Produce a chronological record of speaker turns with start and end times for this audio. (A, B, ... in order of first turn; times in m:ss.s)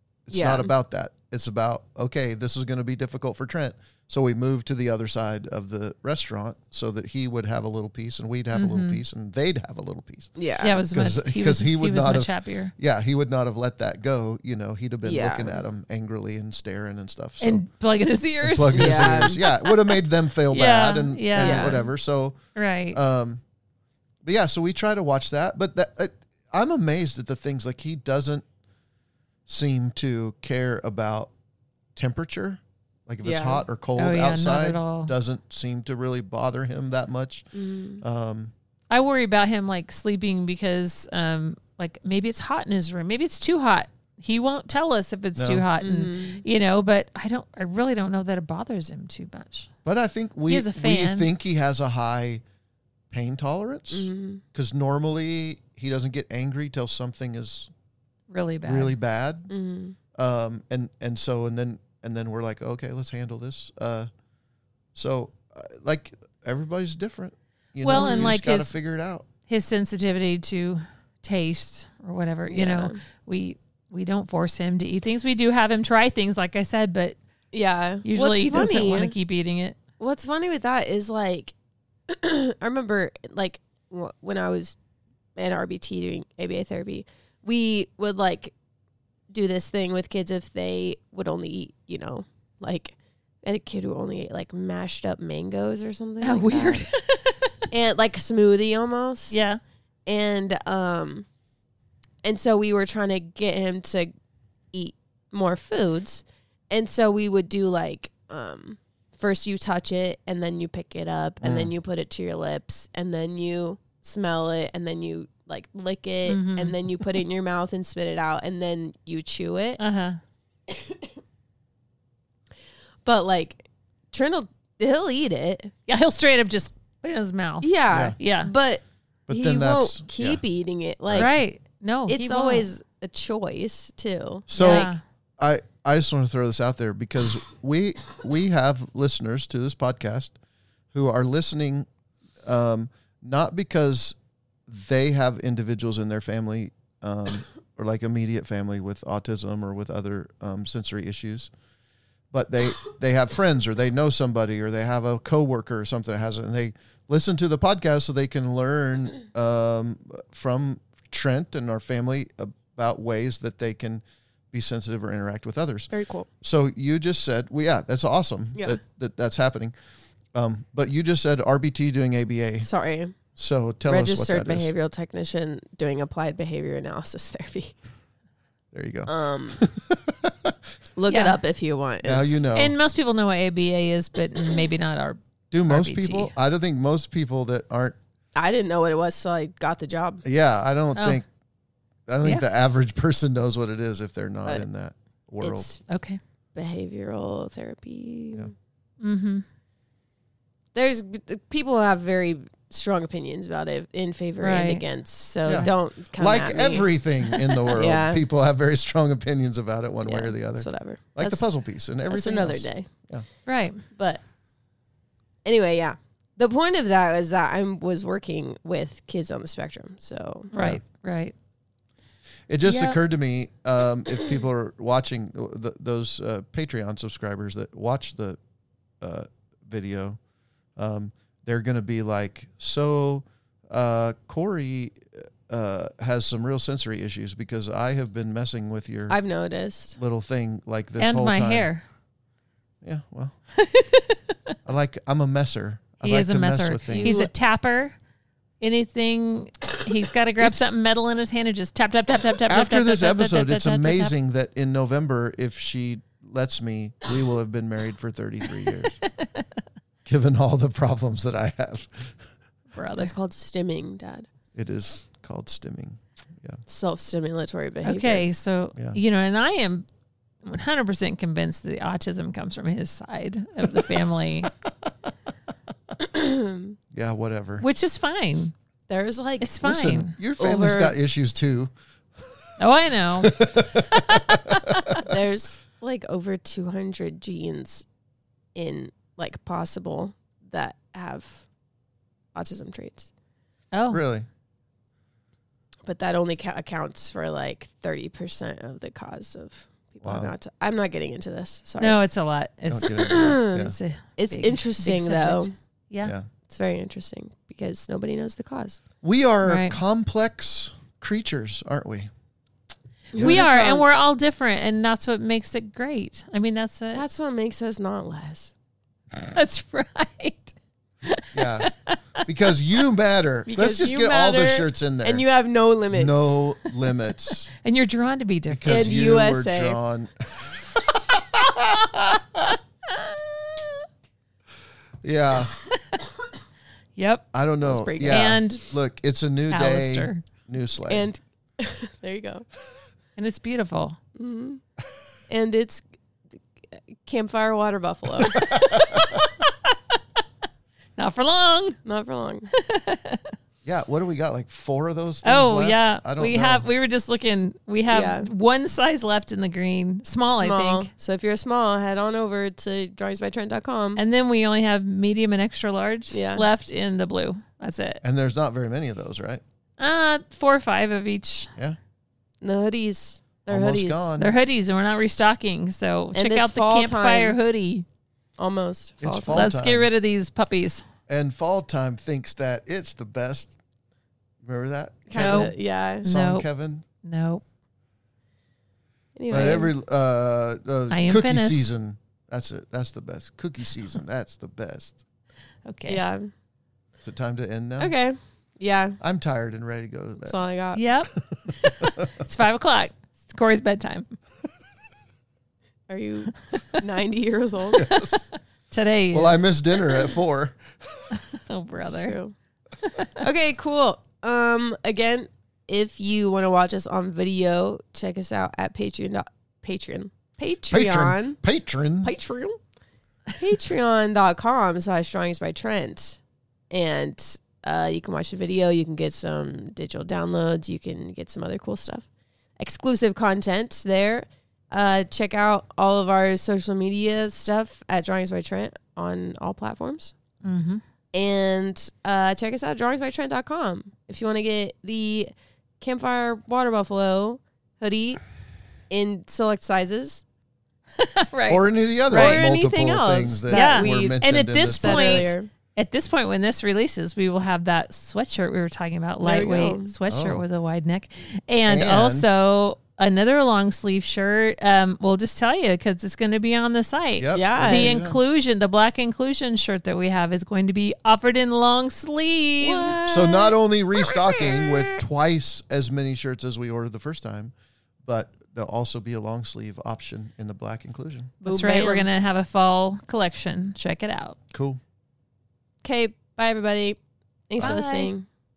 0:00.3-0:10.3 A
0:00.3-0:00.7 B
0:08.5-0:09.0 C
0:10.4-0:10.8 B
0:10.6-0:12.7 C
0:10.9-0:17.6 A
0:15.0-0:15.6 B
0:17.4-0:20.0 C
0:18.4-0:22.4 A
0:18.7-0:19.4 B
0:20.5-0:21.9 C
0:21.4-0:21.8 B
0:22.5-0:23.0 C
0:22.9-0:23.4 A
0:24.2-0:28.4 A
0:29.5-0:31.3 A
0:31.9-0:37.4 A
0:33.2-0:33.6 B
0:34.0-0:35.1 C
0:37.5-0:38.0 B
0:38.0-0:38.5 A
0:38.9-0:49.7 C
0:45.4-0:45.6 A
0:45.8-0:46.4 B
0:49.8-0:52.4 A
0:50.5-0:51.3 C
0:53.1-0:57.7 A
0:53.9-0:54.4 B
0:58.3-0:59.0 C
0:58.6-0:59.5 A
0:59.5-1:00.0 B
1:00.1-1:04.1 A
1:04.9-1:09.3 A
1:07.8-1:08.7 C
1:07.9-1:08.3 B
1:09.5-1:17.2 C
1:12.5-1:13.0 B
1:17.5-1:19.1 B
1:18.0-1:19.8 C
1:20.0-1:21.5 B
1:22.1-1:24.8 B
1:25.4-1:28.5 B
1:29.3-1:36.8 B
1:36.2-1:37.6 C
1:37.7-1:39.4 B
1:39.3-1:39.6 C
1:40.0-1:41.2 B
1:42.2-1:44.1 B
1:44.7-1:59.8 B
1:51.4-1:51.7 A
1:56.2-1:57.2 C
1:59.8-2:00.2 C
2:00.7-2:01.0 B
2:03.0-2:05.7 B
2:05.9-2:08.5 C
2:07.6-2:11.3 B
2:07.9-2:08.2 A
2:09.3-2:10.4 A
2:11.2-2:12.7 C
2:12.1-2:14.9 B
2:14.5-2:20.3 A
2:14.6-2:15.0 C
2:20.9-2:21.9 A
2:22.4-2:24.2 A
2:24.7-2:31.5 A
2:32.3-2:49.7 A
2:45.9-2:46.3 B
2:50.3-2:52.7 A
2:52.6-2:53.1 B
2:53.4-2:54.7 A
2:53.8-2:57.7 B
2:58.7-3:00.6 A
2:59.1-2:59.6 B
3:01.0-3:02.4 B
3:01.1-3:01.4 C
3:02.0-3:02.7 A
3:02.5-3:06.3 C
3:05.5-3:08.0 A
3:08.4-3:10.2 B
3:10.2-3:11.2 A
3:11.0-3:11.2 C
3:12.1-3:15.7 A
3:15.4-3:15.8 B
3:15.9-3:16.2 C
3:16.5-3:18.5 B
3:19.0-3:19.4 C
3:20.7-3:28.2 B
3:24.4-3:24.8 C
3:25.4-3:33.2 A
3:30.0-3:31.5 B
3:32.1-3:32.9 B
3:33.4-3:33.8 C
3:33.9-3:34.2 B
3:35.4-3:40.5 B
3:40.5-3:41.3 C
3:40.6-3:40.8 A
3:42.5-3:48.4 A
3:42.6-3:43.0 C
3:49.0-3:50.2 A
3:50.8-3:59.2 A
3:59.1-4:00.0 B
4:00.0-4:01.7 A
4:01.0-4:01.8 C
4:02.8-4:03.3 A
4:03.6-4:04.5 C
4:04.6-4:07.2 A
4:06.0-4:07.9 C
4:06.9-4:07.3 B
4:08.6-4:14.1 C
4:10.4-4:10.7 A
4:12.5-4:19.0 A
4:19.0-4:19.4 C
4:20.0-4:22.2 A
4:22.7-4:23.1 C
4:22.9-4:24.3 B
4:24.5-4:26.6 A
4:26.6-4:28.3 B
4:27.8-4:29.8 C
4:30.4-4:34.5 C
4:36.0-4:36.8 B
4:36.9-4:37.6 A
4:37.6-4:38.5 C
4:38.9-4:39.5 B
4:39.4-4:40.2 C
4:39.6-4:41.7 A
4:40.4-4:40.9 B
4:42.6-4:45.0 C
4:43.2-4:45.0 A
4:45.0-4:47.8 B
4:48.5-4:51.4 B
4:52.3-4:53.1 B
4:53.7-4:54.0 C
4:53.9-4:54.3 A
4:55.8-5:02.0 B
5:00.0-5:00.3 A
5:01.8-5:06.1 C
5:02.7-5:03.8 A
5:02.8-5:05.5 B
5:06.0-5:06.3 A
5:06.5-5:08.8 B
5:09.0-5:12.1 A
5:09.4-5:09.8 C
5:13.1-5:13.8 B
5:13.2-5:17.0 C
5:13.2-5:13.4 A
5:16.9-5:18.5 B
5:19.2-5:22.3 C
5:21.3-5:21.7 A
5:22.2-5:25.2 A
5:23.4-5:26.4 B
5:25.9-5:27.5 A
5:27.6-5:28.9 C
5:28.5-5:32.6 A
5:28.7-5:29.8 B
5:33.0-5:33.5 C
5:35.0-5:35.5 A
5:37.0-5:37.3 C
5:37.3-5:41.1 A
5:37.6-5:38.4 B
5:38.0-5:38.7 C
5:39.5-5:40.2 C
5:40.9-5:42.4 B
5:43.2-5:44.0 C
5:44.2-5:44.6 B
5:45.3-5:45.8 B
5:46.7-5:48.8 B
5:48.3-5:49.2 A
5:48.4-5:49.8 C
5:51.0-5:51.8 C
5:51.8-5:52.5 B
5:52.5-5:53.3 C
5:53.6-5:56.6 A
5:55.2-6:00.9 C
5:57.9-5:58.3 B
6:00.3-6:04.0 B
6:04.0-6:08.0 C
6:06.1-6:06.4 B
6:08.0-6:09.4 A
6:09.8-6:11.5 C
6:12.4-6:14.1 B
6:13.5-6:14.3 A
6:14.2-6:17.8 C
6:16.1-6:17.4 B
6:18.4-6:19.5 B
6:19.0-6:19.9 A
6:19.3-6:20.8 C
6:21.1-6:23.6 A
6:24.4-6:26.8 A
6:25.1-6:26.0 B
6:25.2-6:26.5 C
6:27.0-6:27.4 C
6:29.2-6:29.7 B
6:29.3-6:35.0 A
6:30.9-6:31.7 C
6:35.7-6:36.0 C
6:35.9-6:36.3 B
6:37.0-6:37.9 A
6:37.8-6:39.0 B
6:39.0-6:40.4 A
6:40.2-6:40.8 B
6:40.7-6:44.1 C
6:41.3-6:42.1 A
6:45.9-6:47.9 B
6:47.7-6:48.2 A
6:47.8-6:49.5 C
6:49.1-6:51.2 A
6:51.1-6:52.2 C
6:51.8-6:52.3 B
6:53.0-7:01.4 B
7:00.7-7:02.1 A
7:02.0-7:02.6 B
7:03.4-7:06.2 B
7:06.7-7:12.1 B
7:12.6-7:20.1 B
7:20.4-7:20.8 C
7:21.1-7:28.2 B
7:28.9-7:30.2 B
7:31.0-7:32.4 C
7:31.5-7:35.3 A
7:32.1-7:35.5 B
7:33.5-7:53.0 C
7:39.2-7:39.9 B
7:40.1-7:40.4 A
7:41.7-7:42.3 A
7:47.2-7:48.2 A
7:47.3-7:48.0 B
7:52.6-7:55.0 B
7:53.1-7:57.5 A
7:58.0-8:01.4 A
8:01.4-8:02.1 B
8:01.4-8:04.4 C
8:04.5-8:04.8 A
8:05.8-8:08.2 B
8:07.6-8:08.1 C